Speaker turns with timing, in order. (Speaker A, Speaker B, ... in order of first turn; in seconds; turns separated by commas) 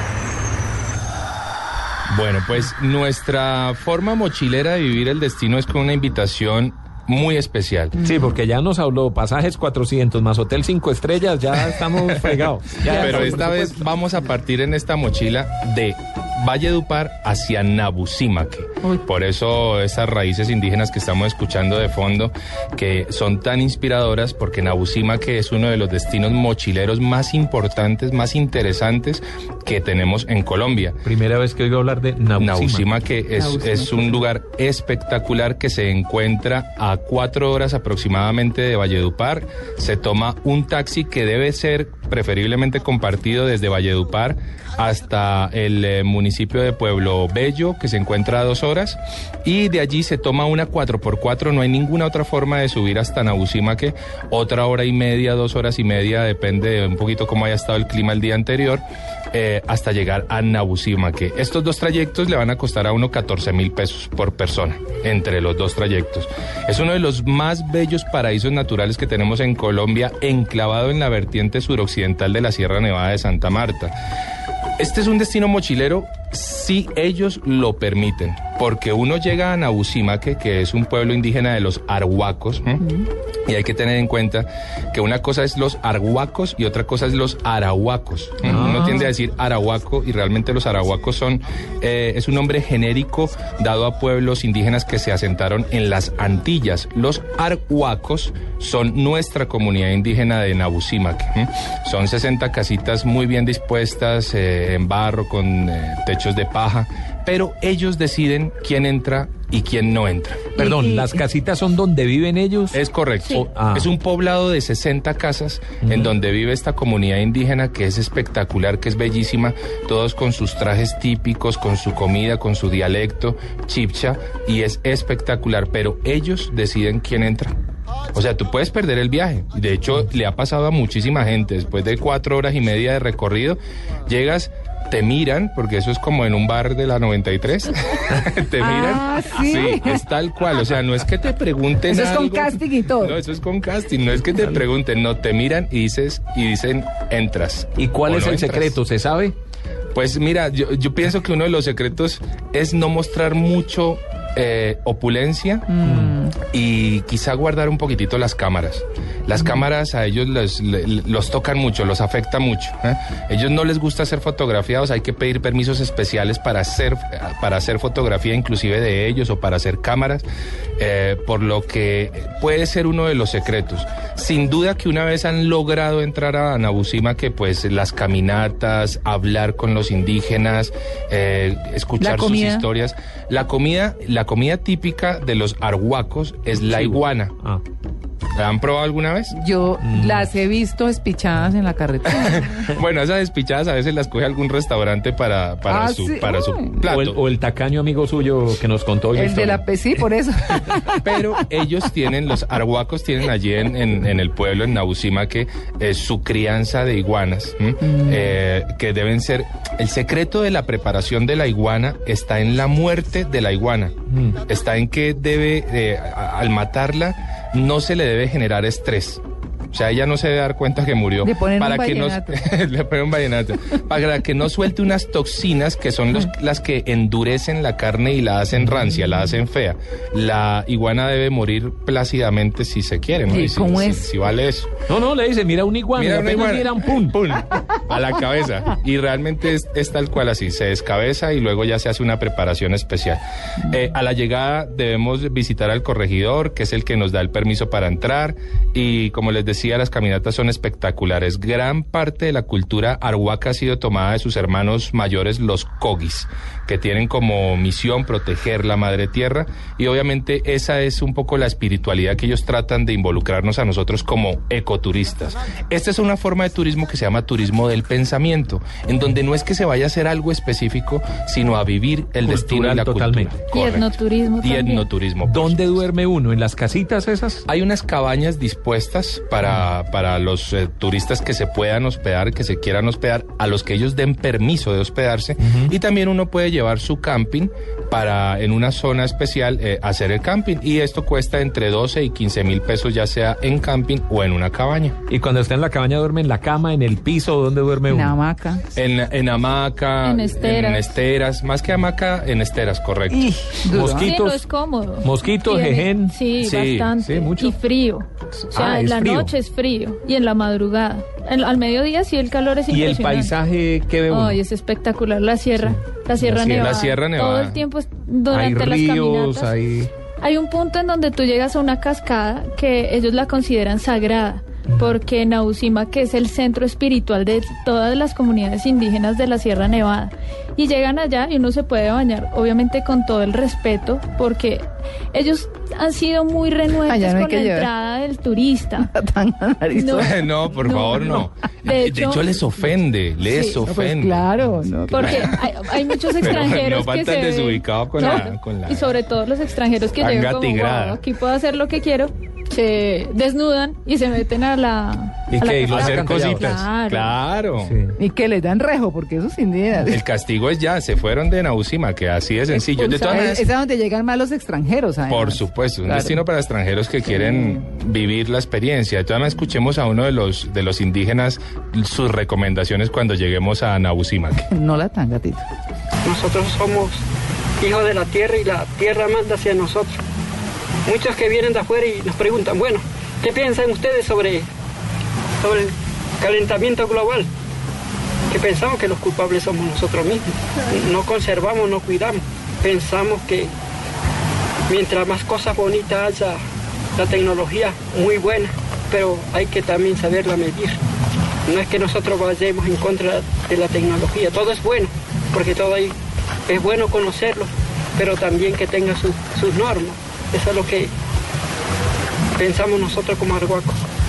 Speaker A: 2.1-8.0, Speaker B: 8.0-13.8, Speaker C: 12.8-13.4, Speaker A: 12.9-31.0, Speaker B: 31.0-32.9, Speaker A: 32.4-73.9, Speaker C: 33.3-34.2, Speaker A: 74.8-82.8, Speaker A: 83.5-110.5, Speaker B: 88.4-89.0, Speaker C: 88.5-89.1, Speaker B: 110.5-113.9, Speaker C: 110.6-111.1, Speaker A: 112.7-127.5, Speaker B: 115.8-116.1, Speaker A: 128.1-148.8, Speaker C: 138.6-140.0, Speaker C: 141.8-143.2, Speaker B: 147.8-149.3, Speaker A: 149.9-155.7, Speaker C: 155.7-156.4, Speaker B: 155.8-156.2, Speaker A: 156.4-170.2, Speaker C: 159.4-159.7, Speaker A: 170.8-187.3, Speaker C: 182.0-182.7, Speaker B: 186.6-187.6, Speaker A: 188.3-189.3, Speaker C: 189.3-192.7, Speaker B: 189.8-190.3, Speaker A: 192.1-197.2, Speaker C: 195.7-196.8, Speaker B: 196.9-200.0, Speaker C: 199.1-201.4, Speaker A: 201.0-213.9, Speaker C: 207.8-208.3, Speaker B: 214.1-214.3, Speaker A: 214.4-219.2, Speaker A: 219.7-234.7, Speaker C: 221.2-222.4, Speaker C: 233.3-234.1, Speaker B: 234.9-237.2, Speaker A: 235.9-275.8, Speaker B: 272.2-273.4, Speaker D: 273.5-274.9, Speaker B: 275.2-277.4, Speaker A: 277.5-294.9, Speaker B: 285.4-285.7, Speaker B: 295.1-298.2, Speaker C: 297.9-298.6, Speaker A: 298.7-303.2, Speaker D: 300.0-301.0, Speaker C: 303.1-304.1, Speaker B: 303.7-304.4, Speaker D: 303.9-313.3, Speaker B: 305.0-306.2, Speaker A: 306.4-306.9, Speaker B: 307.0-307.6, Speaker B: 308.5-309.3, Speaker B: 312.7-314.4, Speaker D: 314.1-319.5, Speaker B: 315.6-316.8, Speaker A: 316.5-317.6, Speaker B: 318.3-319.9, Speaker D: 320.2-334.6, Speaker B: 324.7-324.9, Speaker D: 335.1-338.9, Speaker C: 336.8-337.7, Speaker C: 338.8-340.3, Speaker D: 339.7-341.1, Speaker A: 340.0-344.3, Speaker D: 341.6-342.7, Speaker D: 343.2-343.6, Speaker C: 343.6-345.4, Speaker A: 344.9-345.3, Speaker D: 344.9-357.2, Speaker A: 346.1-348.9, Speaker A: 350.0-351.0, Speaker B: 355.3-356.6, Speaker A: 355.7-357.8, Speaker B: 357.6-357.9, Speaker C: 358.0-360.0, Speaker A: 359.9-363.4, Speaker C: 362.5-366.2, Speaker D: 362.8-363.3, Speaker A: 365.1-374.4, Speaker C: 367.1-367.6, Speaker C: 374.5-375.4, Speaker E: 376.0-377.0, Speaker E: 377.6-380.0, Speaker E: 380.9-384.5, Speaker E: 385.4-387.3, Speaker E: 388.3-393.5, Speaker E: 394.7-396.4, Speaker E: 396.9-400.8, Speaker E: 401.4-405.9, Speaker E: 406.5-410.9, Speaker E: 412.4-413.8